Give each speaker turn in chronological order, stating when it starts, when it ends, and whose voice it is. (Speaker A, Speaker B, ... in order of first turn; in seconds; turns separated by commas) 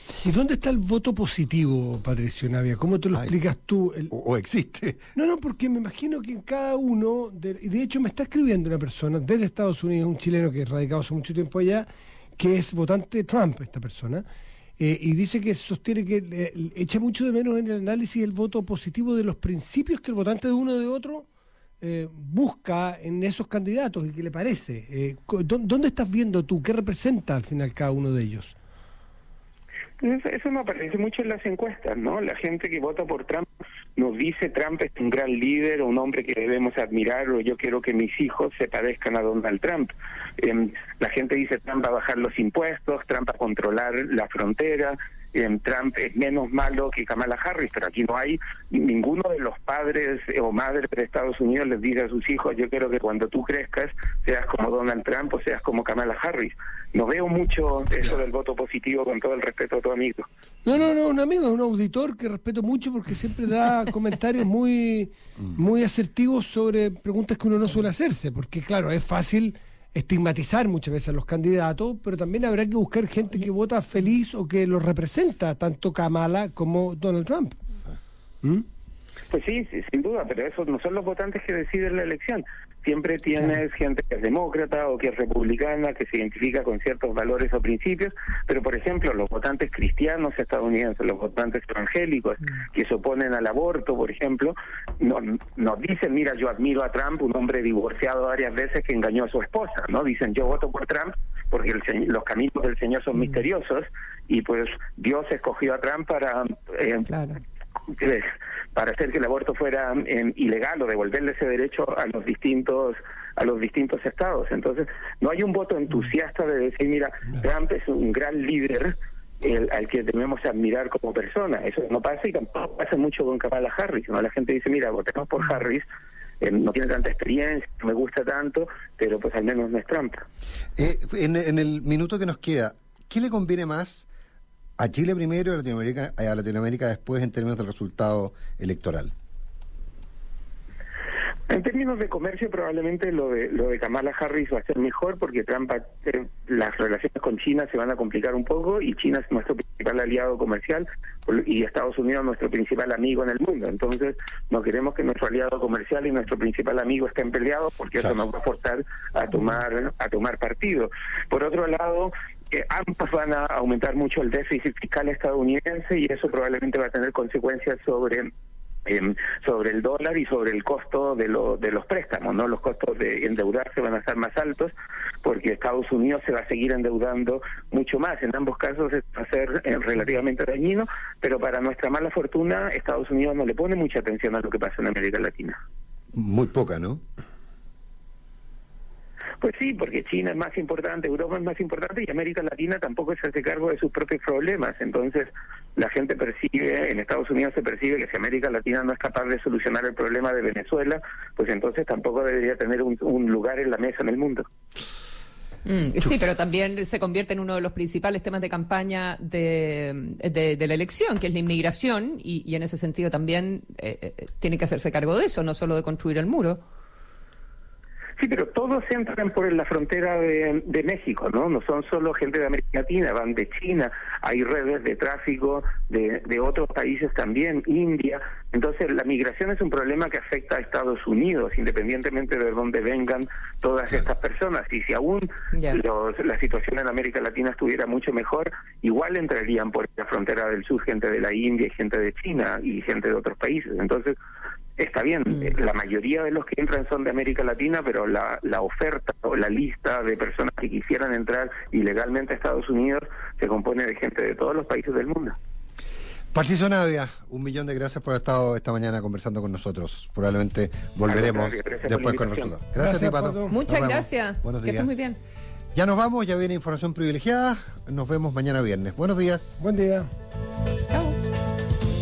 Speaker A: 0.2-4.1, Speaker B: 4.1-5.0, Speaker A: 5.1-11.9, Speaker A: 12.4-14.2, Speaker A: 14.8-21.2, Speaker A: 21.8-28.5, Speaker C: 30.0-60.3, Speaker A: 60.6-77.6, Speaker C: 79.3-107.1, Speaker D: 107.1-107.4, Speaker C: 107.9-125.8, Speaker C: 126.4-130.2, Speaker B: 130.8-134.1, Speaker B: 134.8-139.1, Speaker C: 141.5-168.3, Speaker C: 168.8-174.7, Speaker C: 175.2-185.6, Speaker B: 186.1-187.0, Speaker C: 189.4-204.4, Speaker D: 205.6-216.6, Speaker C: 218.2-244.2, Speaker D: 235.5-235.8, Speaker C: 244.8-255.4, Speaker B: 256.3-264.9, Speaker C: 261.1-262.5, Speaker A: 262.8-263.6, Speaker D: 263.5-265.2, Speaker B: 265.7-269.6, Speaker A: 269.6-270.1, Speaker D: 270.9-271.1